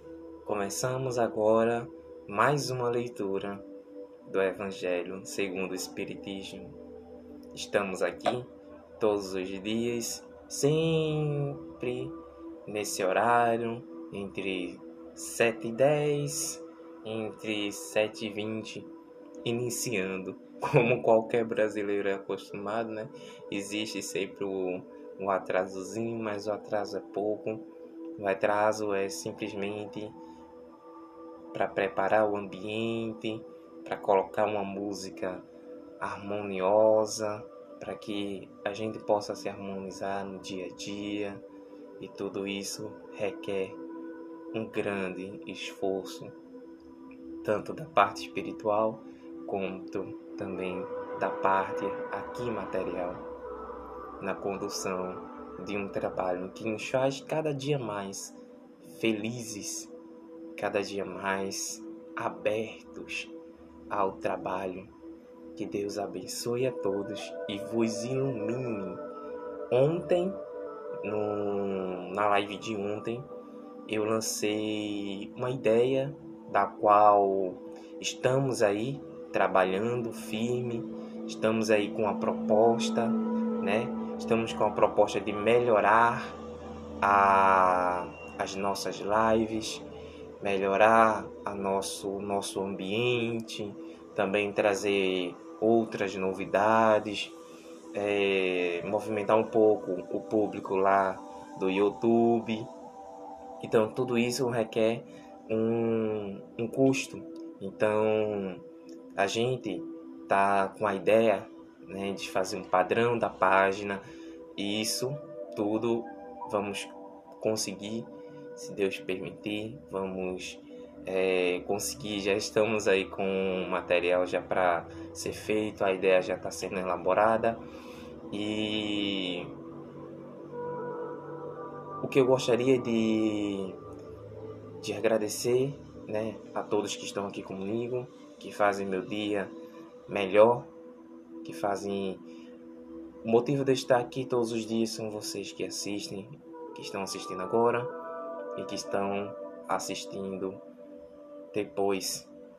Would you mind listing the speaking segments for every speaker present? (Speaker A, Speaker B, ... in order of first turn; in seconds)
Speaker A: 0.4-3.6, 4.2-6.8, 7.5-18.9, 19.4-30.2, 31.5-35.5, 36.0-41.4, 42.0-43.8, 44.5-46.4, 47.4-53.2, 54.2-59.9, 60.5-63.3, 63.9-64.9, 65.5-69.0, 69.7-70.4, 71.0-73.3, 73.9-86.4, 87.0-89.8, 90.4-97.3, 97.9-102.7, 103.6-108.6, 109.2-114.0, 114.5-127.6, 128.3-129.5, 132.0-133.8, 134.8-139.5, 140.1-140.7, 141.4-142.3, 143.2-147.9, 148.6-150.6, 151.5-152.3